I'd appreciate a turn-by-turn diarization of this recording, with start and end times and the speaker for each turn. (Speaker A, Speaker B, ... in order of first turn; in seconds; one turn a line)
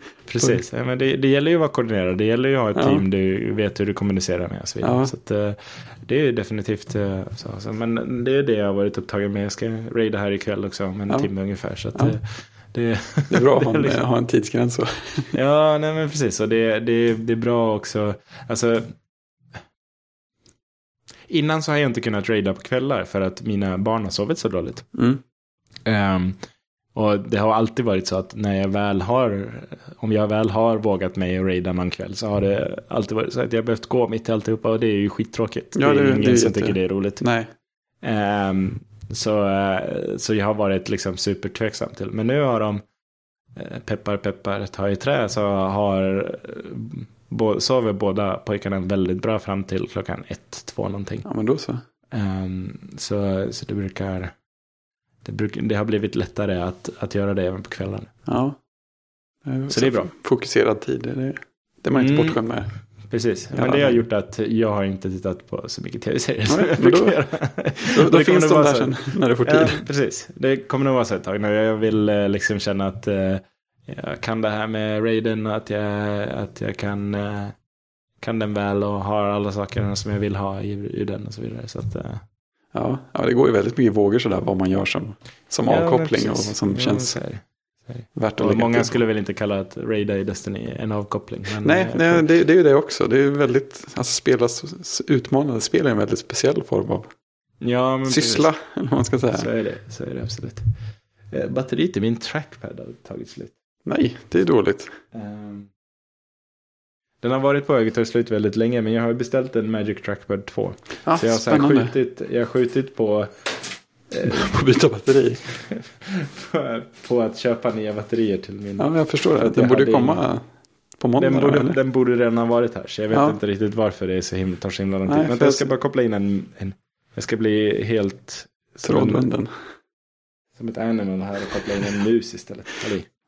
Speaker A: 0.3-14.0
Speaker B: 2.8-3.0
Speaker B: 4.8-5.1
Speaker B: 13.3-15.4
Speaker A: 15.3-18.8
Speaker A: 21.3-24.9
Speaker B: 25.0-25.2
Speaker A: 25.9-26.4
Speaker A: 26.9-37.2
Speaker B: 35.8-37.5
Speaker A: 38.0-42.8
Speaker A: 43.5-51.2
Speaker B: 51.2-51.8
Speaker A: 52.1-54.3
Speaker A: 55.2-58.1
Speaker B: 58.3-58.6
Speaker B: 59.5-62.7
Speaker A: 59.7-60.1
Speaker A: 61.9-62.4
Speaker A: 63.1-77.5
Speaker B: 63.5-64.0
Speaker B: 66.5-67.2
Speaker B: 67.9-69.8
Speaker A: 78.2-82.2
Speaker B: 82.7-87.2
Speaker A: 85.7-92.3
Speaker B: 88.1-89.0
Speaker B: 91.6-97.1
Speaker A: 97.6-98.5
Speaker B: 98.1-99.5
Speaker A: 99.3-100.6
Speaker A: 101.3-103.5
Speaker B: 103.9-104.9
Speaker A: 105.1-105.7
Speaker A: 107.2-113.3
Speaker B: 111.1-112.0
Speaker A: 114.1-114.5
Speaker B: 114.2-115.5
Speaker A: 115.7-118.9
Speaker B: 118.8-120.4
Speaker A: 119.4-120.2
Speaker B: 121.0-121.8
Speaker A: 121.2-129.2
Speaker B: 123.1-123.4
Speaker B: 125.1-125.7
Speaker B: 128.8-129.5
Speaker A: 130.6-133.1